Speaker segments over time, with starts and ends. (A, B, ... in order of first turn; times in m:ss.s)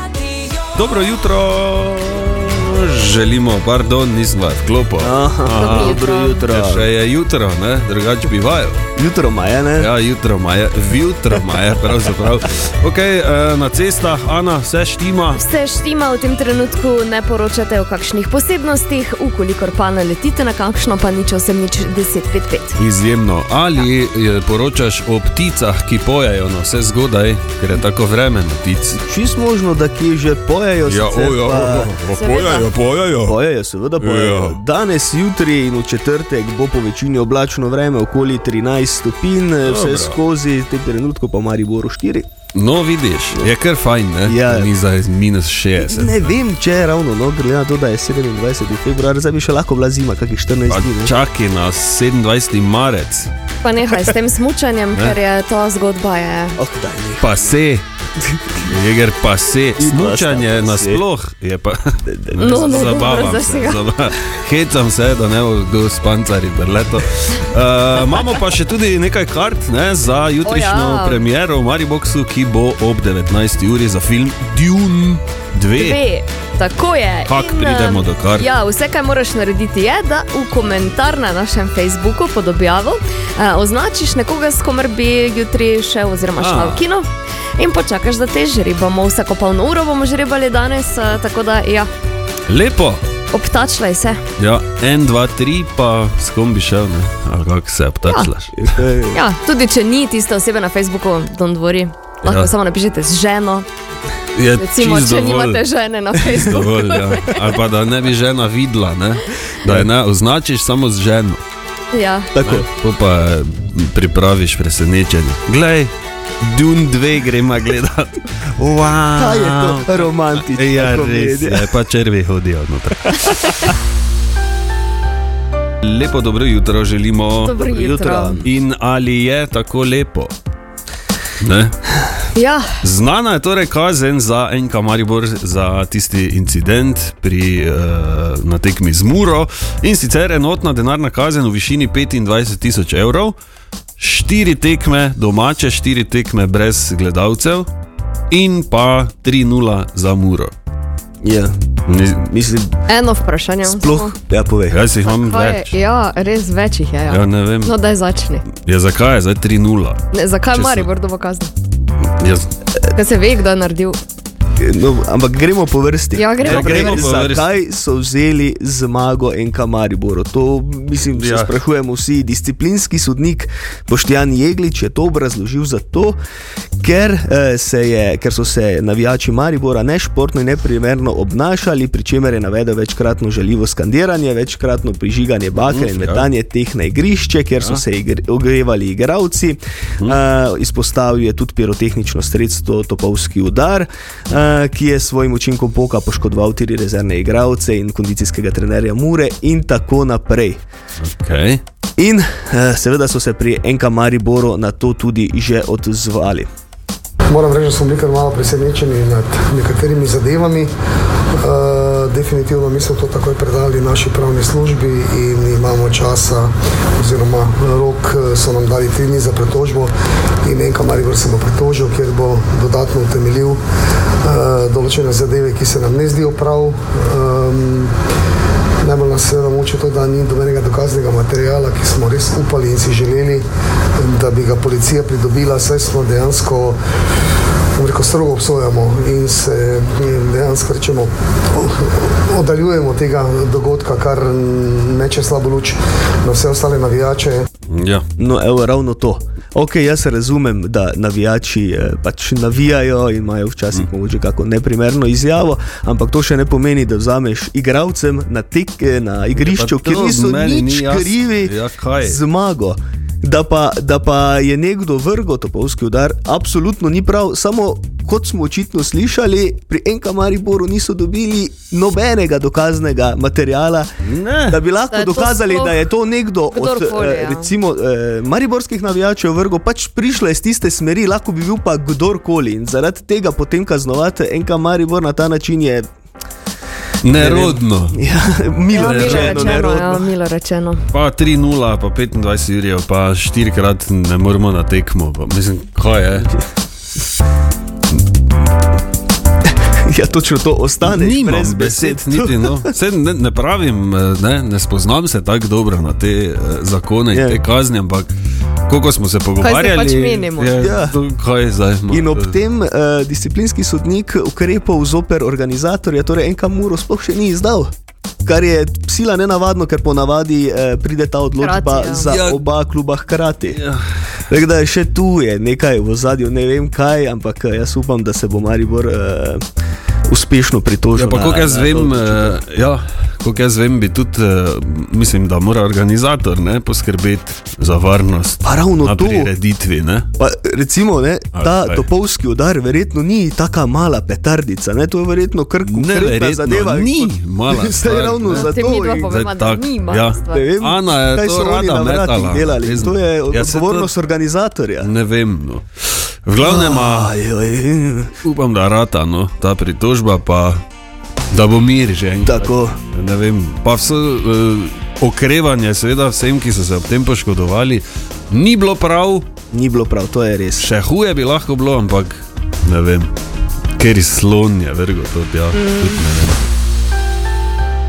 0:00.7-0:08.8 A
0:05.0-0:06.8 B
0:05.5-0:06.4 C
0:09.0-0:09.9 B
0:09.8-0:15.4 A
0:15.4-0:22.8 C
0:22.8-0:29.0 A
0:29.0-0:32.0 B
0:30.9-0:33.3 A
0:32.1-0:32.6 C
0:33.2-0:42.3 B
0:34.0-0:34.6 A
0:39.6-0:40.2 A
0:42.5-0:46.3 A
0:44.3-0:44.7 B
0:45.8-0:51.1 B
0:50.7-0:53.3 A
0:53.6-0:56.6 C
0:56.6-0:57.5 B
0:57.2-0:57.8 A
0:58.2-0:58.7 B
0:58.6-1:16.0 A
0:59.8-1:01.0 B
1:02.0-1:02.6 B
1:02.4-1:03.8 C
1:10.4-1:11.2 C
1:15.8-1:31.9 C
1:17.3-1:18.5 A
1:26.4-1:26.8 A
1:32.5-1:33.0 A
1:33.3-1:34.2 C
1:34.4-1:38.8 A
1:38.6-1:39.2 B
1:39.1-1:43.6 C
1:42.2-1:42.5 A
1:44.3-1:45.6 A
1:44.6-1:47.4 C
1:46.4-1:51.4 A
1:51.9-1:52.3 C
1:52.3-1:52.7 B
1:52.4-2:03.7 A
1:59.1-2:01.7 B
2:05.8-2:07.6 A
2:07.4-2:08.4 C
2:07.6-2:08.4 B
2:08.4-2:10.3 A
2:11.4-2:11.8 A
2:12.3-2:12.7 C
2:12.8-2:23.3 A
2:24.0-2:27.6 A
2:28.3-2:30.5 A
2:31.2-2:31.6 B
2:31.9-2:32.2 A
2:32.1-2:32.7 B
2:32.9-2:34.1 C
2:33.6-2:34.8 B
2:34.7-2:35.7 A
2:35.0-2:38.4 C
2:37.1-2:37.7 A
2:38.5-2:40.0 A
2:40.1-2:41.5 C
2:40.5-2:40.9 A
2:42.2-2:42.5 A
2:42.9-2:44.0 C
2:44.6-2:56.2 B
2:46.1-2:47.1 C
2:46.4-2:47.5 A
2:51.1-2:51.5 A
2:56.8-3:20.6 B
3:05.7-3:06.2 A
3:21.0-3:21.6 A
3:22.0-3:26.5 B
3:27.3-3:30.7 D
3:31.3-3:43.6 D
3:44.2-3:47.9 D
3:48.8-3:56.8 D
3:57.8-4:07.5 D
4:07.7-4:08.0 A
4:08.2-4:33.9 B
4:19.4-4:22.2 A
4:34.0-4:34.6 A
4:34.5-4:45.9 B
4:34.9-4:35.8 C
4:36.5-4:37.5 C
4:47.0-4:48.0 A
4:47.1-4:50.1 B
4:48.7-4:50.8 C
4:48.7-4:49.5 A
4:50.9-4:56.3 A
4:59.8-5:02.7 B
5:00.8-5:08.1 A
5:07.1-5:07.4 B
5:08.7-5:12.4 A
5:09.4-5:10.6 C
5:10.6-5:11.0 B
5:11.9-5:17.7 B
5:18.2-5:23.6 B
5:21.4-5:22.1 C
5:22.1-5:22.4 A
5:23.5-5:23.8 A
5:24.3-5:29.4 B
5:30.1-5:32.4 B
5:30.9-5:40.1 A
5:38.4-5:39.3 B
5:40.2-5:49.1 B
5:41.3-5:41.8 A
5:45.6-5:53.9 A
5:48.3-5:50.4 C
5:50.3-5:54.9 B
5:54.8-5:57.1 A
5:56.4-5:58.1 B
5:58.2-6:00.6 A
6:01.3-6:09.3 A
6:02.2-6:02.8 B
6:09.5-6:10.7 B
6:10.6-6:13.1 A
6:13.8-6:16.4 A
6:15.5-6:16.0 C